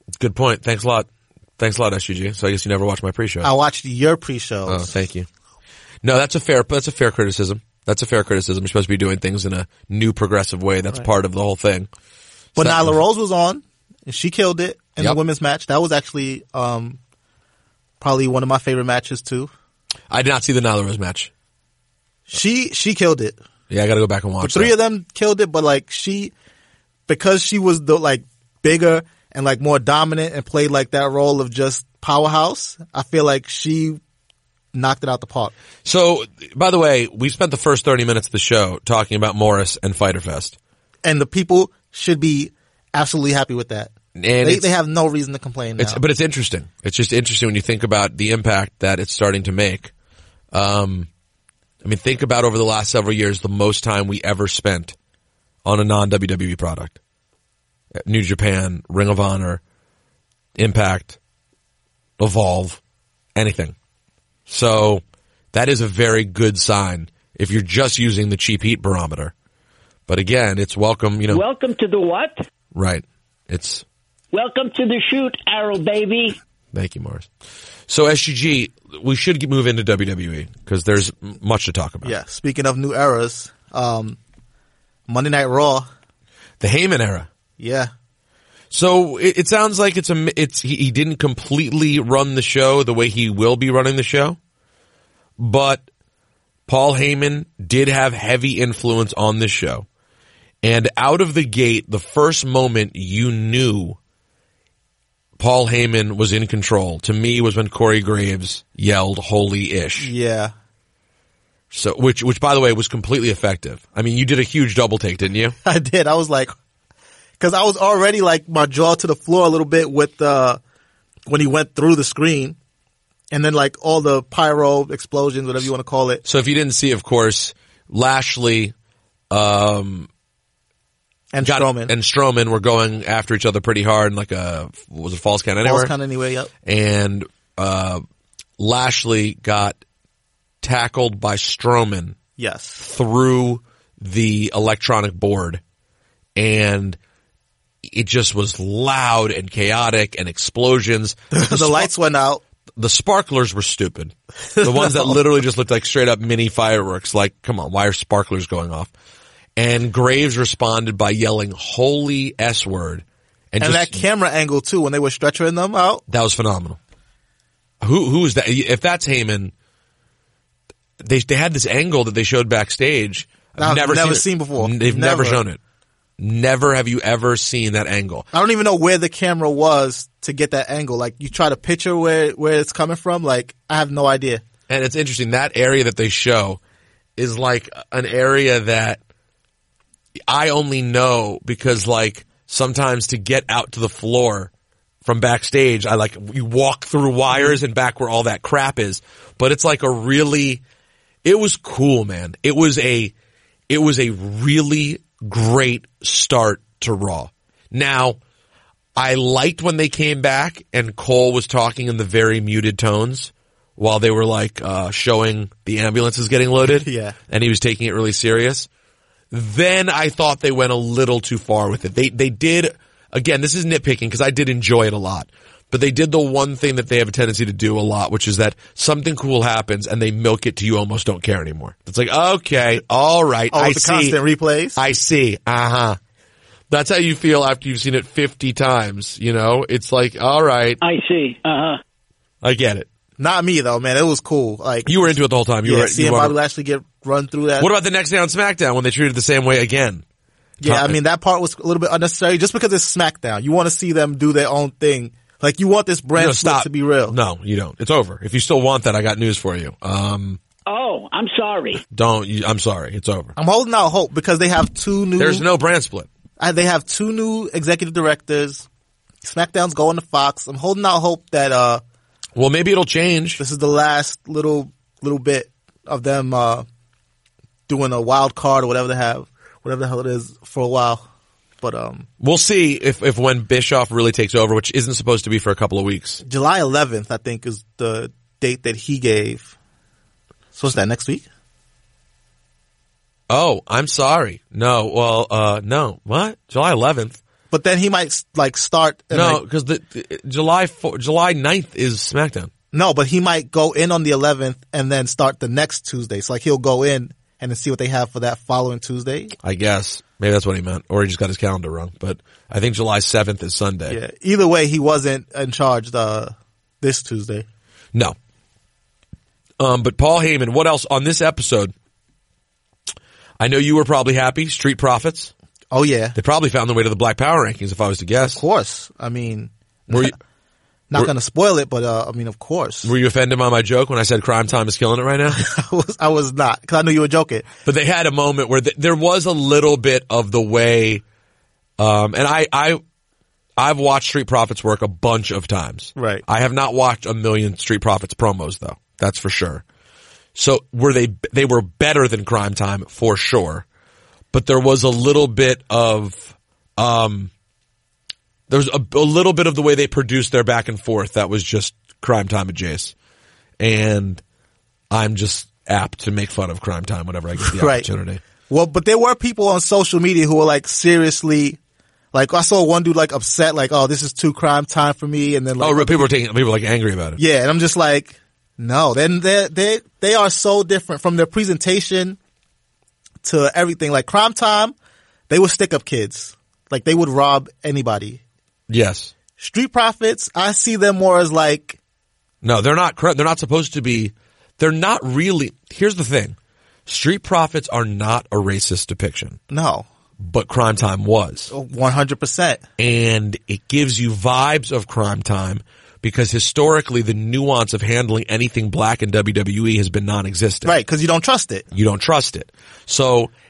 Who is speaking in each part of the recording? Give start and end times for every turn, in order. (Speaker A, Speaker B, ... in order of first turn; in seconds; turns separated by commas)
Speaker A: 0.2-3.5, Speaker B: 3.4-4.9, Speaker A: 4.7-5.3, Speaker A: 6.0-11.9, Speaker A: 12.6-13.0, Speaker B: 12.6-17.0, Speaker B: 18.0-19.5, Speaker A: 20.1-21.3, Speaker B: 22.3-23.4, Speaker A: 23.7-24.8, Speaker B: 24.4-26.3, Speaker B: 27.1-34.0, Speaker B: 34.7-35.5, Speaker A: 35.9-40.6, Speaker B: 41.0-43.9, Speaker A: 44.1-44.7, Speaker B: 44.4-46.0, Speaker A: 45.8-49.9, Speaker A: 50.5-51.1, Speaker A: 51.8-55.0, Speaker A: 55.6-57.0, Speaker A: 58.0-59.6, Speaker A: 60.6-61.2, Speaker A: 62.2-62.8, Speaker A: 63.4-63.8, Speaker A: 64.5-69.3, Speaker A: 70.1-71.4, Speaker C: 71.3-72.4, Speaker A: 72.7-73.8, Speaker C: 74.3-76.4, Speaker A: 76.7-77.3, Speaker A: 77.9-82.2, Speaker B: 82.0-84.2, Speaker B: 85.1-85.9, Speaker A: 86.6-87.3, Speaker B: 87.6-87.9, Speaker A: 88.7-94.4, Speaker A: 95.4-95.9, Speaker A: 96.7-99.9, Speaker A: 100.6-104.0, Speaker A: 105.4-110.1, Speaker B: 110.0-110.5, Speaker A: 111.7-115.6, Speaker B: 115.6-116.5, Speaker B: 117.4-120.6, Speaker B: 121.3-122.6, Speaker B: 123.3-126.2, Speaker A: 126.2-128.7, Speaker A: 129.3-130.1, Speaker B: 131.3-131.9, Speaker A: 131.4-135.9, Speaker B: 135.6-136.5, Speaker A: 136.7-138.0, Speaker A: 138.6-139.8, Speaker A: 140.6-142.2, Speaker B: 142.4-142.8, Speaker A: 142.8-145.6, Speaker A: 146.4-147.0, Speaker A: 147.8-151.9, Speaker B: 151.3-152.4, Speaker A: 152.8-158.9, Speaker B: 154.6-155.2, Speaker A: 159.6-164.0, Speaker B: 163.6-166.0, Speaker A: 166.1-166.8, Speaker A: 167.8-169.5, Speaker A: 171.0-175.6, Speaker B: 173.6-175.4, Speaker A: 176.2-178.3, Speaker B: 178.3-184.4, Speaker A: 184.7-186.6, Speaker A: 187.2-189.0, Speaker A: 190.3-194.5, Speaker A: 195.0-200.6, Speaker A: 201.2-203.1, Speaker A: 203.7-208.2, Speaker A: 209.0-218.7, Speaker B: 216.7-217.2, Speaker A: 219.3-234.2, Speaker B: 233.5-234.8, Speaker A: 234.8-236.0, Speaker A: 236.7-240.8, Speaker C: 240.8-241.8, Speaker A: 242.4-242.9, Speaker B: 243.2-247.7, Speaker A: 244.9-246.4, Speaker A: 247.6-250.0, Speaker B: 250.6-257.1, Speaker A: 250.6-251.0, Speaker A: 256.2-260.4, Speaker C: 260.7-261.8, Speaker A: 261.9-263.3, Speaker B: 263.4-265.4, Speaker A: 265.2-266.1, Speaker B: 266.4-268.7, Speaker B: 269.2-271.8, Speaker A: 272.4-273.4, Speaker B: 273.4-276.7, Speaker B: 277.7-281.1, Speaker B: 281.6-282.1, Speaker A: 282.2-286.2, Speaker B: 286.2-289.5, Speaker B: 290.6-291.2, Speaker A: 293.3-297.2, Speaker B: 297.5-299.4, Speaker A: 299.1-302.5, Speaker B: 302.7-309.3, Speaker A: 309.4-314.0, Speaker B: 313.9-317.5, Speaker A: 319.6-321.7, Speaker A: 323.4-325.3, Speaker B: 325.7-326.2, Speaker A: 326.2-328.4, Speaker B: 328.2-330.1, Speaker B: 330.9-332.9, Speaker A: 332.8-335.4, Speaker B: 335.4-337.5, Speaker A: 337.6-341.0, Speaker A: 341.8-342.8, Speaker A: 343.6-349.6, Speaker B: 346.0-346.2, Speaker A: 350.4-353.6, Speaker A: 354.3-357.3, Speaker A: 358.5-362.9, Speaker A: 363.6-364.2, Speaker A: 364.9-368.2, Speaker B: 367.4-367.9, Speaker B: 368.5-371.6, Speaker B: 372.1-376.1, Speaker A: 375.6-377.2, Speaker B: 377.2-382.2, Speaker B: 383.2-384.7, Speaker B: 385.3-388.2, Speaker A: 388.7-389.1, Speaker B: 389.4-391.8, Speaker A: 392.4-399.4, Speaker B: 399.5-399.9, Speaker A: 400.2-401.5, Speaker B: 401.5-402.6, Speaker A: 402.8-410.8, Speaker B: 410.6-411.7, Speaker A: 411.7-413.3